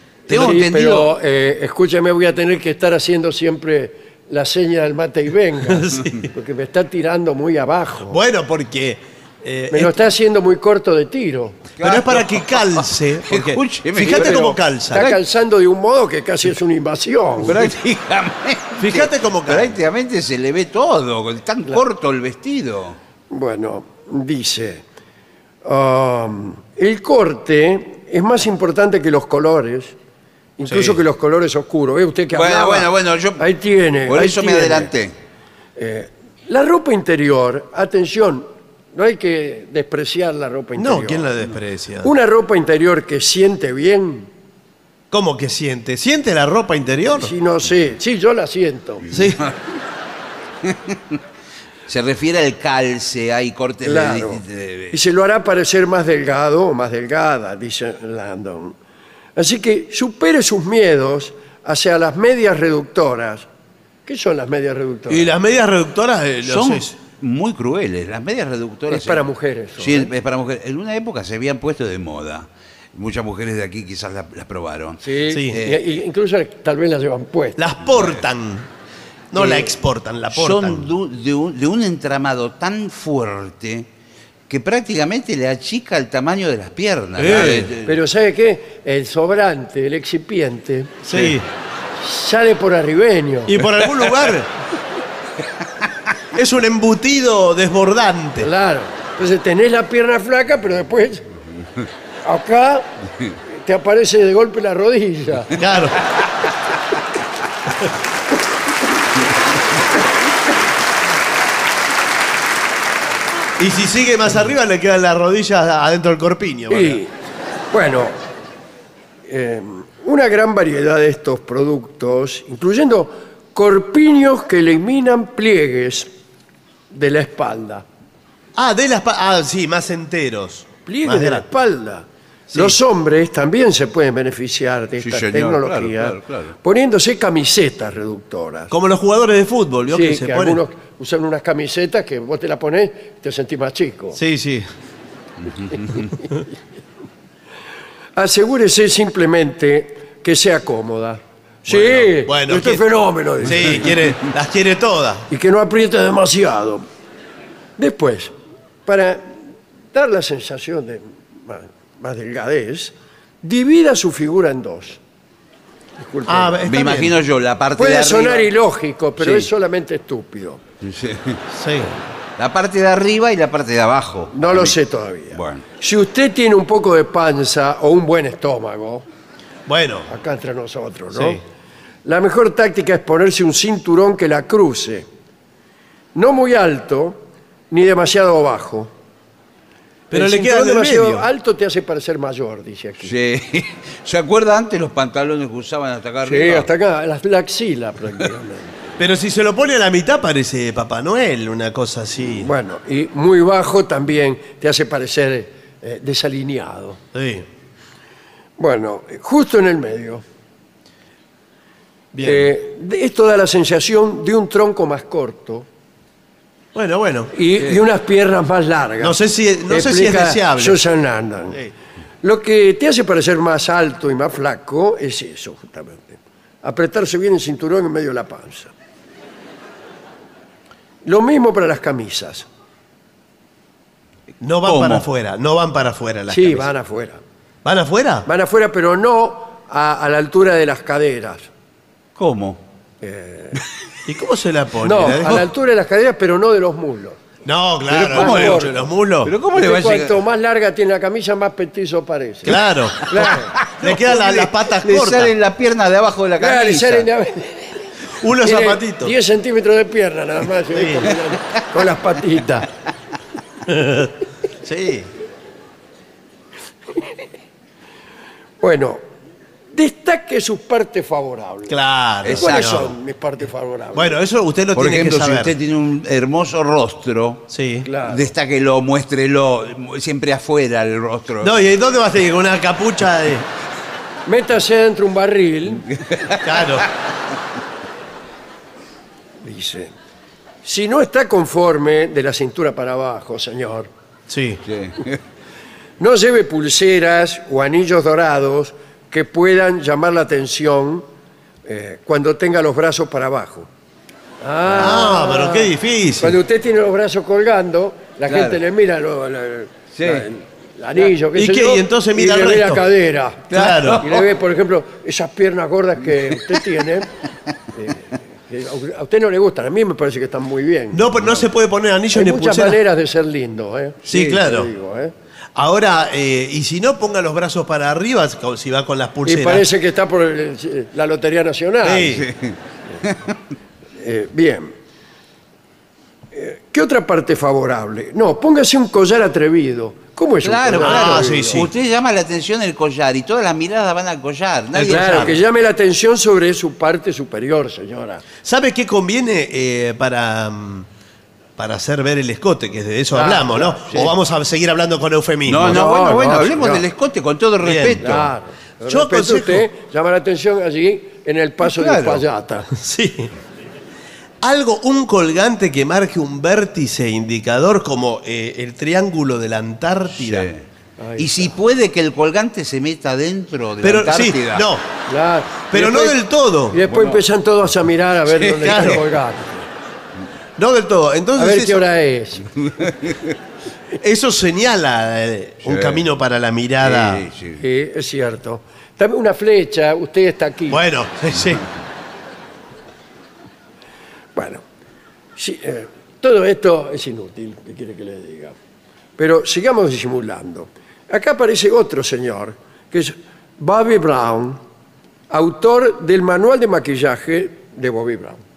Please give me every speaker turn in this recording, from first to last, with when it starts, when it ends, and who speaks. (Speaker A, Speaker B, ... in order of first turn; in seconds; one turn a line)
Speaker A: 0.3-1.1
Speaker B: 0.3-8.2
Speaker C: 0.3-0.7
Speaker C: 5.7-6.3
Speaker C: 8.1-10.0
Speaker B: 9.7-11.6
Speaker A: 11.8-15.2
Speaker C: 11.8-15.1
Speaker B: 14.1-17.7
Speaker A: 17.4-23.0
Speaker C: 18.8-19.8
Speaker B: 23.3-24.8
Speaker B: 25.6-29.9
Speaker B: 30.6-34.9
Speaker C: 30.6-31.0
Speaker A: 32.3-33.4
Speaker A: 34.1-35.1
Speaker B: 35.8-41.3
Speaker C: 40.8-42.1
Speaker B: 42.0-44.3
Speaker C: 45.1-47.3
Speaker B: 47.1-49.1
Speaker C: 49.1-49.4
Speaker A: 50.7-51.0
Speaker A: 51.9-55.0
Speaker B: 53.8-58.8
Speaker B: 59.4-63.5
Speaker B: 64.0-65.3
Speaker C: 65.1-66.9
Speaker A: 66.4-69.2
Speaker B: 68.9-70.1
Speaker A: 69.8-75.8
Speaker B: 75.0-77.6
Speaker C: 75.3-75.6
Speaker C: 77.6-78.7
Speaker A: 77.9-78.2
Speaker C: 79.3-80.9
Speaker B: 79.3-79.8
Speaker A: 80.3-83.9
Speaker A: 84.5-88.0
Speaker C: 87.2-87.7
Speaker B: 87.8-91.0
Speaker C: 91.0-91.5
Speaker B: 92.0-93.6
Speaker C: 93.5-94.5
Speaker A: 93.8-94.1
Speaker C: 96.3-98.5
Speaker B: 98.4-101.3
Speaker B: 102.2-102.9
Speaker B: 103.5-105.5
Speaker C: 105.5-106.0
Speaker C: 113.6-117.0
Speaker B: 116.7-117.1
Speaker B: 117.7-118.1
Speaker B: 119.2-126.1
Speaker B: 126.9-127.8
Speaker C: 128.5-131.4
Speaker B: 130.9-138.7
Speaker C: 132.5-132.8
Speaker A: 135.0-136.5
Speaker C: 138.7-140.6
Speaker B: 139.9-144.2
Speaker C: 144.1-144.7
Speaker B: 145.7-146.0
Speaker B: 148.2-153.9
Speaker C: 151.7-152.8
Speaker C: 153.4-155.3
Speaker B: 155.3-156.8
Speaker B: 157.8-158.3
Speaker B: 158.8-159.4
Speaker B: 159.9-165.0
Speaker B: 166.0-166.7
Speaker C: 166.3-167.1
Speaker A: 166.7-168.5
Speaker B: 167.8-170.6
Speaker A: 169.2-169.5
Speaker A: 170.8-171.4
Speaker C: 171.5-171.9
Speaker A: 172.4-174.8
Speaker B: 174.3-179.1
Speaker A: 175.3-175.6
Speaker C: 179.7-180.1
Speaker B: 180.1-181.4
Speaker C: 181.1-181.4
Speaker B: 182.0-185.1
Speaker B: 186.1-187.2
Speaker B: 187.7-188.9
Speaker C: 190.1-191.3
Speaker B: 190.1-193.1
Speaker A: 193.0-196.7
Speaker B: 196.2-198.9
Speaker C: 199.0-202.5
Speaker B: 202.2-207.0
Speaker C: 207.1-207.5
Speaker B: 208.6-210.2
Speaker C: 212.1-212.5
Speaker B: 212.2-215.7
Speaker C: 216.7-217.3
Speaker B: 217.3-221.6
Speaker C: 219.0-220.8
Speaker B: 222.2-228.7
Speaker B: 231.0-232.4
Speaker C: 234.4-236.7
Speaker A: 234.6-235.1
Speaker B: 236.3-237.2
Speaker C: 237.6-238.3
Speaker B: 238.3-241.5
Speaker A: 242.2-242.6
Speaker B: 243.0-243.6
Speaker C: 244.1-245.5
Speaker B: 244.8-247.2
Speaker C: 247.4-249.3
Speaker A: 247.9-250.2
Speaker B: 248.1-248.8
Speaker B: 249.5-253.6
Speaker C: 252.4-255.3
Speaker A: 253.1-257.1
Speaker B: 256.4-257.8
Speaker C: 258.2-259.1
Speaker B: 258.4-262.7
Speaker C: 260.7-261.1
Speaker C: 263.6-265.1
Speaker B: 268.6-269.0
Speaker B: 269.7-274.2
Speaker C: 271.7-272.9
Speaker A: 272.2-272.9
Speaker C: 273.9-275.5
Speaker A: 274.7-277.5
Speaker C: 277.5-277.9
Speaker B: 277.8-278.3
Speaker A: 278.0-281.6
Speaker C: 281.4-283.5
Speaker B: 284.2-285.9
Speaker A: 286.1-286.4
Speaker C: 286.4-286.9
Speaker B: 289.4-289.9
Speaker B: 290.6-293.9
Speaker C: 294.3-294.6
Speaker A: 294.7-295.2
Speaker B: 296.0-301.1
Speaker B: 301.6-303.7
Speaker B: 304.4-313.5
Speaker A: 304.6-305.0
Speaker C: 304.8-306.4
Speaker A: 308.3-308.6
Speaker A: 310.0-310.2
Speaker C: 311.3-312.8
Speaker C: 313.5-314.1
Speaker A: 313.5-314.3
Speaker B: 314.0-317.1
Speaker B: 317.7-321.4
Speaker C: 320.9-322.8
Speaker B: 322.1-325.1
Speaker C: 324.1-324.7
Speaker C: 325.5-329.7
Speaker B: 329.2-332.2
Speaker C: 331.8-332.3
Speaker A: 332.1-333.3
Speaker B: 334.0-334.7
Speaker B: 336.3-341.6
Speaker A: 340.4-345.4
Speaker C: 340.8-341.7
Speaker C: 344.8-345.4
Speaker B: 344.9-348.2
Speaker C: 348.4-350.9
Speaker C: 351.6-356.0
Speaker B: 353.1-354.0
Speaker A: 355.5-358.3
Speaker B: 355.6-356.8
Speaker C: 357.6-358.2
Speaker B: 358.0-362.7
Speaker C: 358.9-359.7
Speaker A: 361.6-362.2
Speaker C: 362.8-363.3
Speaker C: 364.4-370.5
Speaker A: 370.1-370.6
Speaker B: 371.0-371.5
Speaker A: 371.2-374.6
Speaker C: 373.8-374.8
Speaker B: 375.1-376.2
Speaker C: 375.7-376.8
Speaker B: 376.7-379.7
Speaker A: 376.9-377.2
Speaker A: 378.3-379.0
Speaker C: 378.6-379.0
Speaker C: 380.6-381.8
Speaker B: 381.4-382.5
Speaker A: 382.8-383.3
Speaker C: 384.0-387.3
Speaker A: 385.6-386.0
Speaker A: 386.8-387.6
Speaker B: 387.6-390.8
Speaker C: 390.7-391.6
Speaker B: 394.3-394.6
Speaker B: 395.4-398.5
Speaker B: 399.2-404.6
Speaker B: 405.3-408.4